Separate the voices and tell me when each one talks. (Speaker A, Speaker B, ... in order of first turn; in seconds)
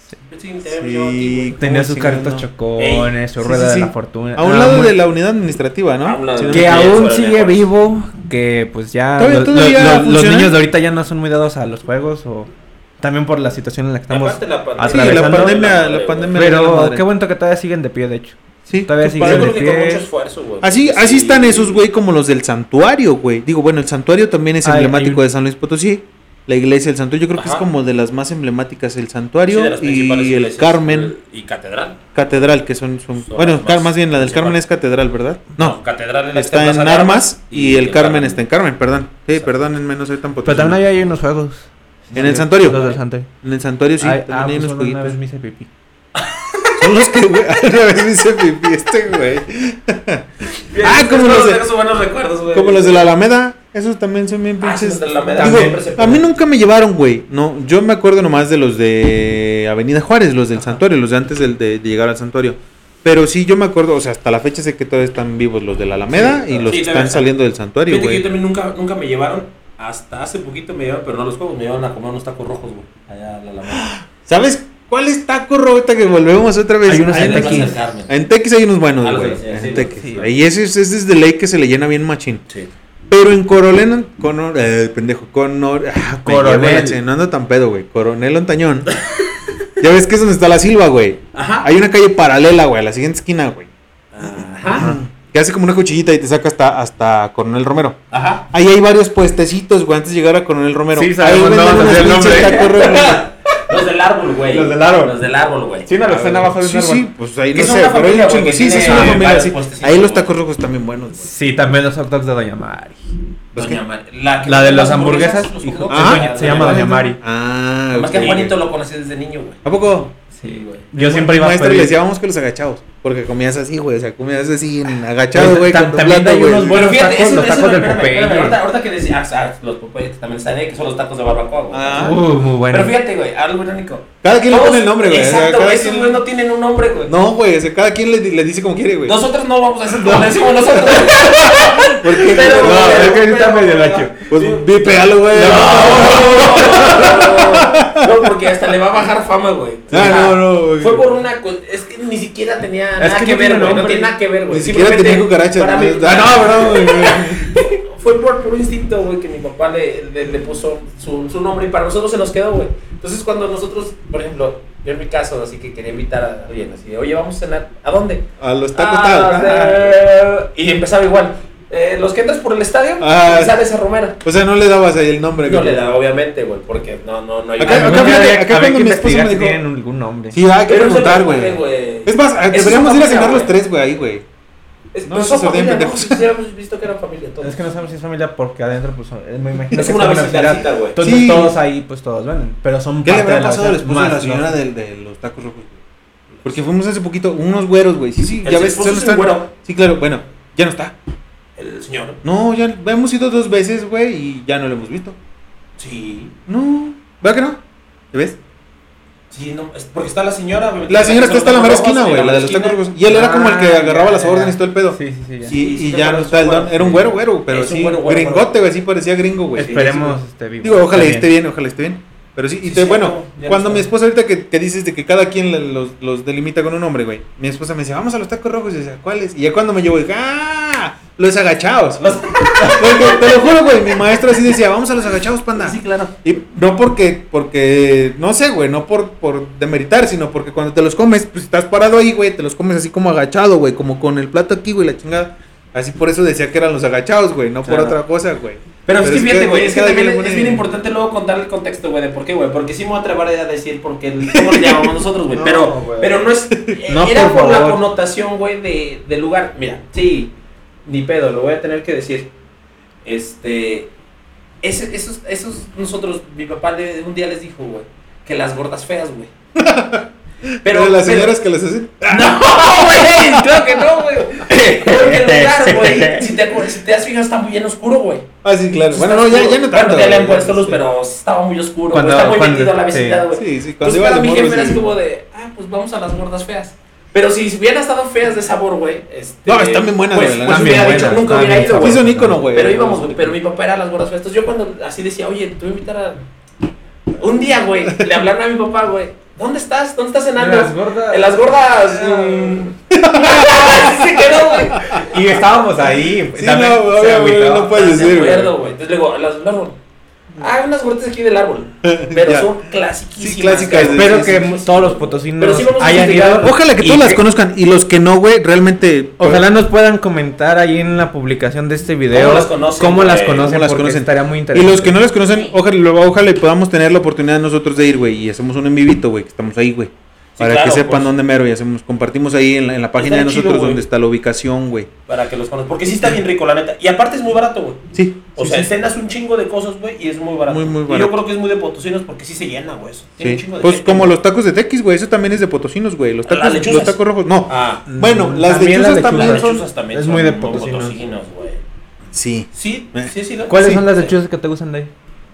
Speaker A: 0.3-1.6, 2.8-3.1, 6.0-7.6, 14.1-16.4, 19.1-21.8, 27.4-27.7, 29.5-32.1, 33.2-34.6, 35.6-38.4, 42.1-43.0, 46.1-47.0, 50.7-53.1, 54.6-56.3, 66.1-67.3, 67.9-73.9, 77.1-78.1, 79.0-80.4, 88.9-89.5, 91.3-91.7, 94.1-94.9, 98.1-98.5, 102.2-105.9, 107.5-110.3, 113.5-117.0, 117.9-119.6, 120.3-120.9, 126.7-137.1, 139.1-174.2, 175.4-178.2, 180.7-183.5, 184.9-187.6, 189.7-191.0, 198.4-199.5, 201.6-202.2, 205.8-206.3, 209.3-212.8, 215.5-218.6, 219.6-220.1, 222.6-223.9, 232.0-234.5, 235.6-236.2, 247.6-248.0, 248.8-260.3, 260.9-262.3, 263.1-263.9, 264.6-269.3, 270.6-271.3, 272.1-278.3, 278.9-296.3, 297.1-305.3, 307.3-309.8, 310.4-316.5, 322.1-323.5, 330.4-331.1, 333.0-333.8, 335.1-344.1, 346.2-347.9, 349.0-351.6, 352.5-354.1
Speaker B: 0.7-2.5, 3.4-7.1, 9.2-10.5, 14.8-17.1, 18.6-19.5, 20.6-31.1, 32.1-35.8, 36.3-40.8, 42.1-45.2, 46.8-51.6, 52.5-68.2, 73.8-82.4, 83.1-89.0, 89.8-93.7, 94.2-103.2, 106.1-111.3, 113.5-113.8, 115.9-118.6, 119.6-120.2, 120.9-127.0, 131.7-132.2, 134.2-136.2, 137.1-139.2, 139.9-143.2, 144.3-148.1, 149.9-151.1, 154.5-157.6, 168.4-170.0, 173.0-173.6, 174.2-175.8, 177.6-179.6, 180.3-184.3, 185.1-186.2, 191.0-191.6, 193.0-195.8, 196.4-201.0, 202.2-205.2, 206.5-207.6, 208.1-208.4, 210.9-250.7, 254.3-254.8, 255.4-255.7, 256.5-256.8, 269.6-273.6, 278.4-280.8, 283.3-284.8, 289.5-293.1, 302.9-304.1, 304.8-305.0, 306.3-308.5, 311.8-312.6, 313.2-314.4, 316.4-319.4, 323.4-334.9, 337.9-338.7, 340.5-341.2, 343.2-349.6, 352.1-353.8
Speaker C: 1.6-5.0, 6.5-15.6, 16.3-20.0, 24.6-25.2, 40.4-43.3, 44.0-45.7, 55.4-55.8, 76.9-77.7, 79.7-80.2, 86.2-87.0, 100.9-102.8, 104.5-105.1, 105.9-107.1, 108.8-109.3, 111.2-113.1, 114.5-117.2, 120.4-122.0, 125.3-128.6, 132.0-132.9, 142.4-144.3, 153.0-154.1, 177.6-180.4, 187.4-194.5, 213.1-215.6, 219.6-221.3, 255.4-256.2, 256.9-257.8, 274.5-276.3, 281.9-283.2, 290.4-292.5, 300.4-302.7, 304.8-308.1, 313.9-317.2, 319.2-325.0, 347.9-351.0, 353.5-354.9